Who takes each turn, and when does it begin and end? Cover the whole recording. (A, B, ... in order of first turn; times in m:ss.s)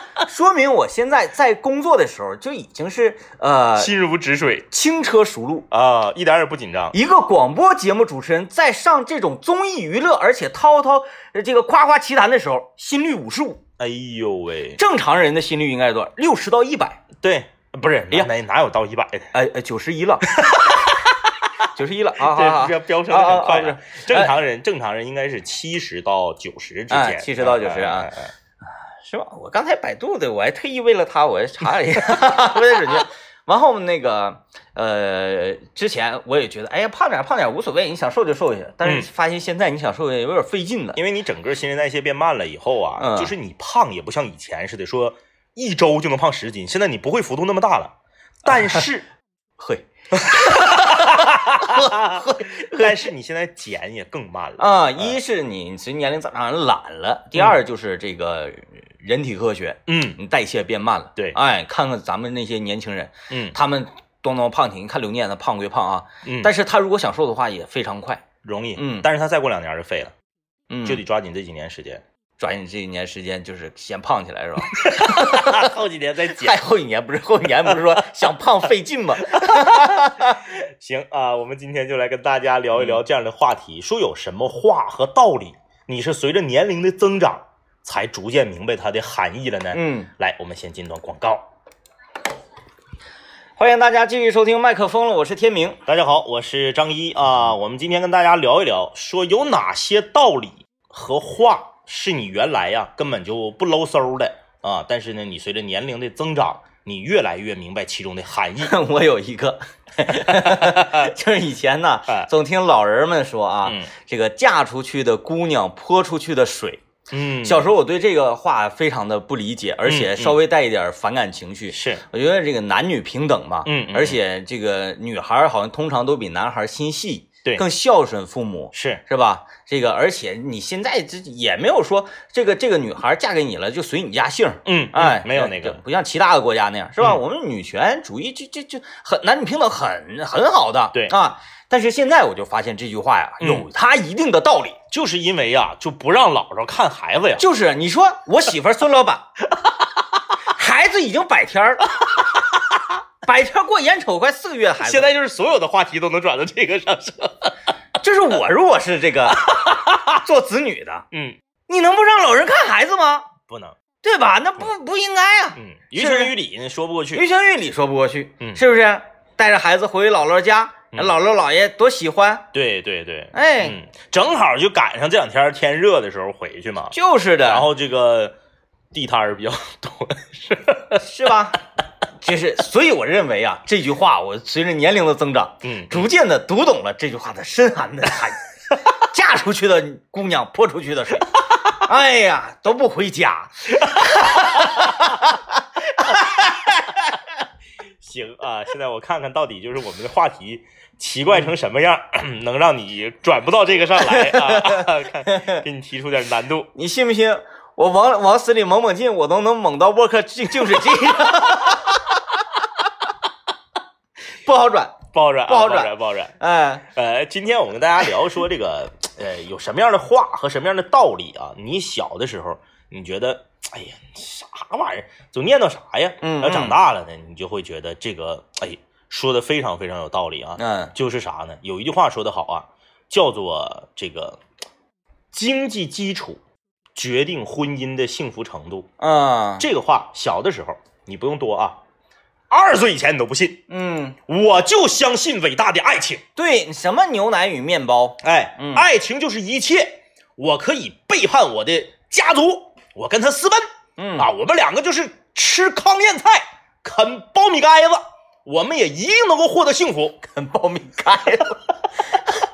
0:00.2-0:03.9 A
0:03.8-0:04.7 B
0:04.7-0:05.7 A
0:05.7-0:07.0 B
0:06.9-0:13.6 A
0:13.8-0:14.8 B
0:14.8-0:17.0 A
0:17.2-0:19.3 B
0:19.3-0:20.4 A
0:20.4-0:21.0 B
0:21.6-0:24.3 A
0:22.2-0:28.3 B
0:26.9-0:28.1 A
0:29.0-0:41.0 A
0:41.0-0:49.1 B
0:43.0-0:43.3 A
0:49.6-0:53.1 A
0:50.1-0:55.2 B
0:54.6-1:08.2 A
0:59.9-1:00.2 B
1:03.3-1:03.6 B
1:06.2-1:06.5 B
1:08.4-1:10.1 B
1:08.8-1:09.1 A
1:10.7-1:11.0 A
1:10.8-1:12.0 B
1:12.4-1:15.6 A
1:14.8-1:16.6 B
1:16.3-1:20.5 A
1:19.3-1:31.5 B
1:29.7-1:30.1 A
1:33.6-1:35.8 A
1:35.9-1:48.8 B
1:48.6-1:56.8 A
1:50.1-1:51.1 B
1:53.6-1:53.9 B
1:57.1-1:57.7 B
1:57.4-2:24.8 A
1:59.8-2:00.4 B
2:01.7-2:02.0 B
2:03.6-2:04.2 B
2:08.7-2:09.0 B
2:14.7-2:15.8 B
2:23.4-2:23.7 B
2:24.9-2:27.4 B
2:27.4-2:29.3 A
2:30.5-2:32.0 A
2:33.2-2:35.1 A
2:34.8-2:37.5 B
2:38.0-2:41.1 A
2:39.4-2:40.0 B
2:41.1-2:41.4 B
2:41.7-2:43.3 A
2:43.5-2:43.8 B
2:44.0-2:46.3 A
2:45.6-2:47.2 B
2:47.1-2:52.5 A
2:52.5-2:58.4 B
2:53.3-2:53.8 A
2:56.9-2:57.7 A
2:58.9-3:01.0 B
3:01.0-3:01.6 A
3:02.2-3:16.4 A
3:05.6-3:06.1 B
3:18.0-3:26.7 B
3:24.0-3:25.6 A
3:26.8-3:32.4 A
3:34.4-3:36.8 A
3:35.1-3:36.4 B
3:36.9-3:54.4 B
3:46.2-3:46.8 A
3:50.6-3:50.9 A
3:55.3-3:56.4 B
3:57.0-3:58.9 B
3:59.0-3:59.7 A
3:59.6-4:01.8 B
4:02.5-4:03.6 B
4:03.7-4:04.2 A
4:04.3-4:06.2 B
4:06.4-4:08.9 A
4:08.2-4:20.3 B
4:14.0-4:14.3 A
4:20.3-4:21.6 A